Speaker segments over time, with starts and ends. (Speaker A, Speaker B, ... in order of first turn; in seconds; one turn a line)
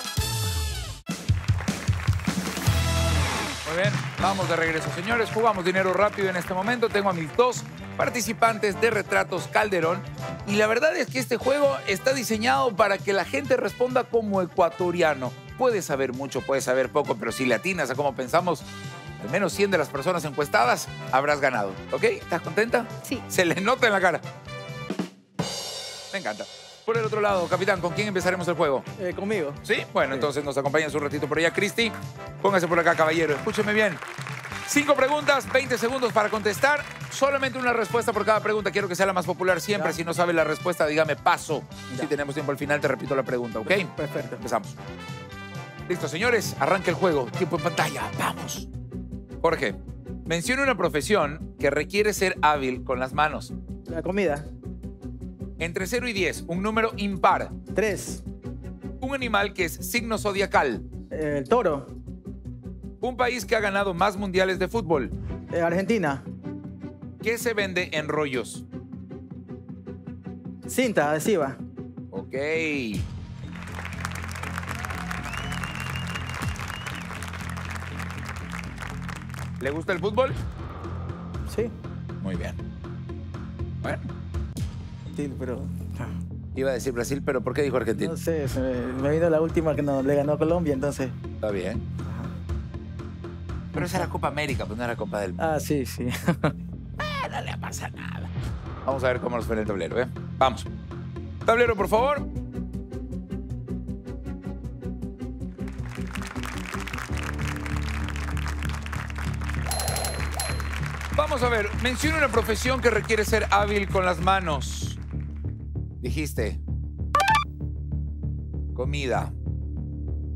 Speaker A: 3.6-18.7
Speaker A: 19.2-24.2
Speaker A: 26.1-28.9
Speaker B: 29.0-30.3
Speaker A: 29.6-34.0
Speaker A: 34.7-44.8
Speaker B: 43.7-44.4
Speaker A: 45.9-48.7
Speaker A: 49.4-53.5
Speaker B: 53.9-54.5
Speaker A: 55.6-57.5
Speaker B: 57.8-58.2
Speaker A: 59.0-60.9
Speaker B: 61.1-61.9
Speaker A: 63.0-65.2
Speaker B: 65.5-66.2
Speaker A: 67.2-68.7
Speaker B: 70.7-71.6
Speaker A: 72.1-73.1
Speaker A: 79.6-80.4
Speaker A: 82.2-82.6
Speaker B: 85.2-86.1
Speaker A: 86.5-88.1
Speaker B: 88.0-91.1
Speaker A: 91.4-91.8
Speaker A: 93.7-95.4
Speaker B: 93.8-94.1
Speaker B: 95.4-96.5
Speaker A: 97.0-98.3
Speaker A: 98.8-100.7
Speaker A: 101.5-102.3
Speaker A: 111.2-115.0
Speaker A: 116.0-116.6
Speaker A: 118.7-119.3